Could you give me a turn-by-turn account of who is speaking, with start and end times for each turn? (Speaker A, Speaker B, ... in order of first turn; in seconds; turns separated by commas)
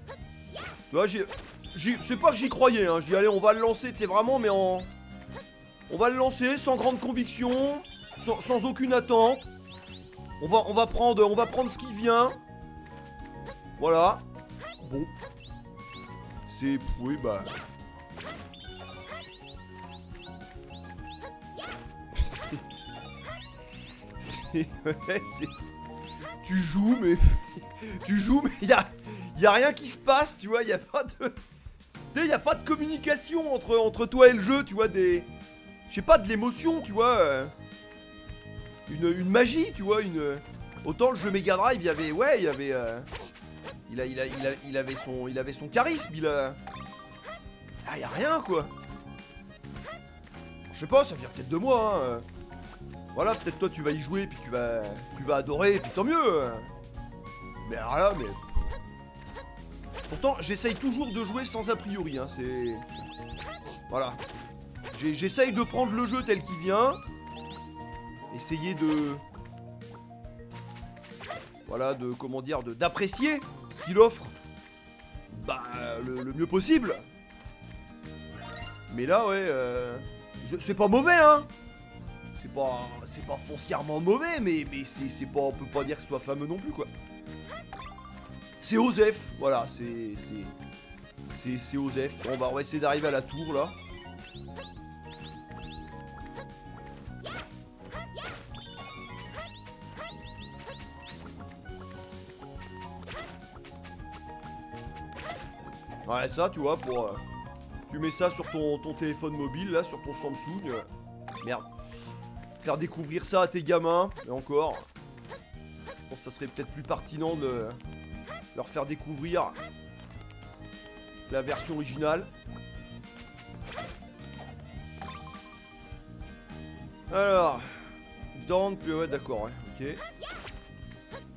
Speaker A: 0.9-4.9, Speaker A: 5.9-9.5, Speaker A: 10.4-12.4, Speaker A: 13.8-14.2, Speaker A: 14.8-15.1, Speaker A: 16.4-17.6, Speaker A: 22.1-22.6, Speaker A: 24.2-25.6, Speaker A: 26.4-31.4, Speaker A: 32.1-35.3, Speaker A: 35.9-37.5, Speaker A: 38.9-43.1, Speaker A: 43.9-46.6, Speaker A: 47.8-48.7, Speaker A: 50.7-52.2, Speaker A: 53.1-56.7, Speaker A: 57.6-58.4, Speaker A: 60.1-62.8, Speaker A: 63.9-64.2, Speaker A: 64.9-67.0, Speaker A: 68.3-69.2, Speaker A: 71.6-74.3, Speaker A: 75.3-77.0, Speaker A: 78.9-81.5, Speaker A: 82.3-86.9, Speaker A: 88.6-90.5, Speaker A: 91.3-93.8, Speaker A: 106.0-107.2, Speaker A: 107.9-110.9, Speaker A: 111.4-111.7, Speaker A: 112.6-114.9, Speaker A: 116.0-117.8, Speaker A: 118.5-119.6, Speaker A: 121.3-122.3, Speaker A: 127.1-130.0